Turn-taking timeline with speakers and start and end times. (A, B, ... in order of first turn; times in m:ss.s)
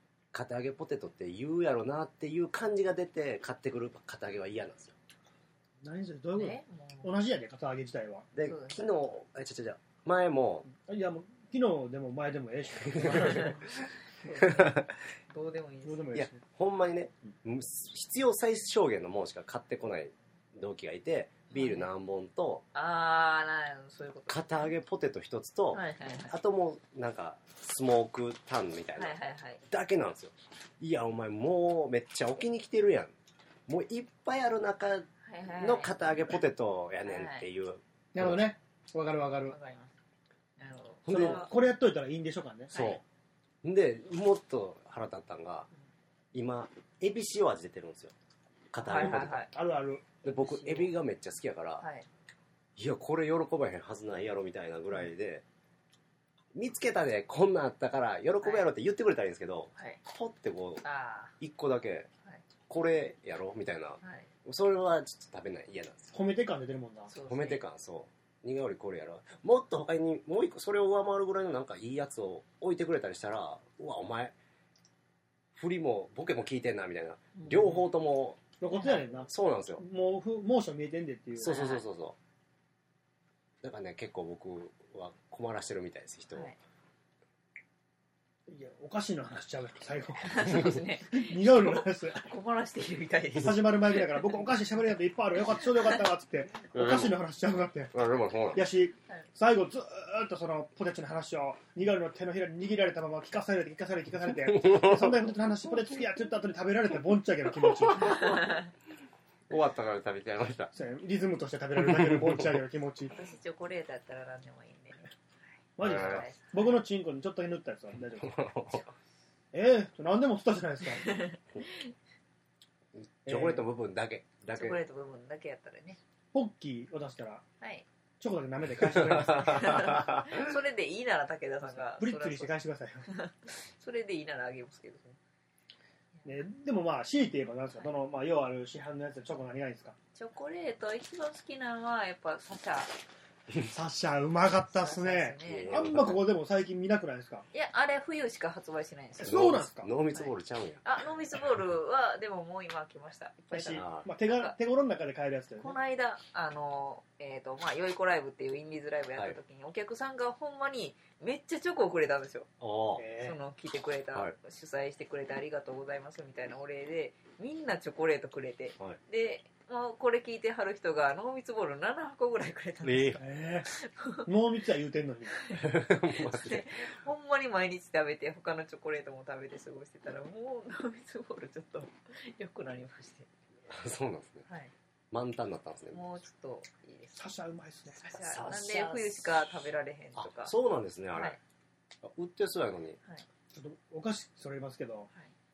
0:00.3-0:05.0 A
0:05.8-0:08.3 B
0:06.4-0:07.1 C
0:08.4-0:10.7 A
0:08.4-0:08.9 C
0:10.7-0:13.6 B
0:12.8-0:13.6 A
0:14.2-0:16.1 C
0:14.3-0:14.9 A
0:15.8-0:16.4 B
0:16.2-0:22.6 A
0:21.5-0:21.9 C
0:22.8-0:24.7 C
0:24.3-0:33.1 A
0:25.7-0:26.4 C
0:29.0-0:29.6 C
0:33.7-0:38.4 A
0:35.2-0:36.0 C
0:37.0-0:37.4 C
0:38.2-0:39.6 B
0:39.5-0:39.9 C
0:40.6-0:41.5 C
0:41.1-0:41.5 A
0:41.1-0:42.8 B
0:42.7-0:43.0 C
0:42.7-0:43.0 A
0:43.6-0:45.7 A
0:46.3-0:48.1 A
0:48.7-0:49.5 A
0:48.8-0:49.5 C
0:49.0-0:50.1 B
0:50.2-0:51.0 C
0:50.2-0:51.9 A
0:51.8-0:52.1 C
0:52.8-0:55.4 A
0:56.6-1:00.8 A
0:58.4-0:58.7 C
1:00.8-1:01.3 C
1:01.4-1:02.1 A
1:02.7-1:06.1 A
1:04.0-1:04.3 C
1:06.1-1:07.1 B
1:07.1-1:07.6 C
1:07.3-1:14.4 A
1:15.5-1:18.4 A
1:17.4-1:17.8 C
1:18.6-1:21.6 B
1:18.7-1:19.0 C
1:19.3-1:19.8 A
1:21.4-1:22.2 A
1:21.5-1:21.8 C
1:23.6-1:26.5 A
1:28.5-1:32.3 B
1:30.2-1:34.3 C
1:33.4-1:37.9 B
1:36.7-1:37.2 A
1:37.9-1:38.6 A
1:38.5-1:48.3 B
1:44.6-1:45.1 A
1:47.9-1:48.4 A
1:48.2-1:48.6 C
1:49.5-1:50.7 A
1:50.7-1:53.1 B
1:51.8-1:52.5 A
1:53.1-1:55.1 C
1:55.8-1:58.5 B
1:55.8-1:56.8 C
1:55.8-1:56.3 A
1:58.2-1:58.8 A
1:59.5-2:01.2 B
2:01.0-2:01.9 C
2:03.0-2:04.8 A
2:03.3-2:03.6 B
2:04.5-2:06.0 C
2:06.3-2:07.4 B
2:07.6-2:07.9 C
2:08.2-2:10.0 B
2:08.8-2:10.5 A
2:09.4-2:12.5 C
2:11.7-2:13.1 B
2:13.1-2:15.0 C
2:16.2-2:20.0 B
2:20.2-2:22.9 C
2:23.7-2:27.5 B
2:24.7-2:25.8 C
2:25.4-2:26.2 A
2:27.5-2:29.4 C
2:29.2-2:29.9 B
2:29.2-2:30.8 A
2:30.8-2:34.5 C
2:33.5-2:35.8 B
2:33.7-2:34.1 A
2:35.6-2:42.5 C
2:42.6-2:43.0 A
2:43.0-2:43.4 B
2:43.2-2:54.3 C
2:52.8-2:53.2 A
2:53.2-2:53.7 B
2:54.2-2:55.4 B
2:55.4-2:55.7 C
2:55.5-2:57.0 A
2:56.2-3:03.3 C
3:03.7-3:04.4 A
3:04.5-3:04.7 C
3:05.1-3:06.0 A
3:05.9-3:07.2 C
3:07.2-3:08.0 B
3:08.0-3:10.5 C
3:08.2-3:09.3 A
3:10.2-3:11.4 A
3:11.1-3:11.4 C
3:12.0-3:13.0 A
3:13.5-3:15.1 B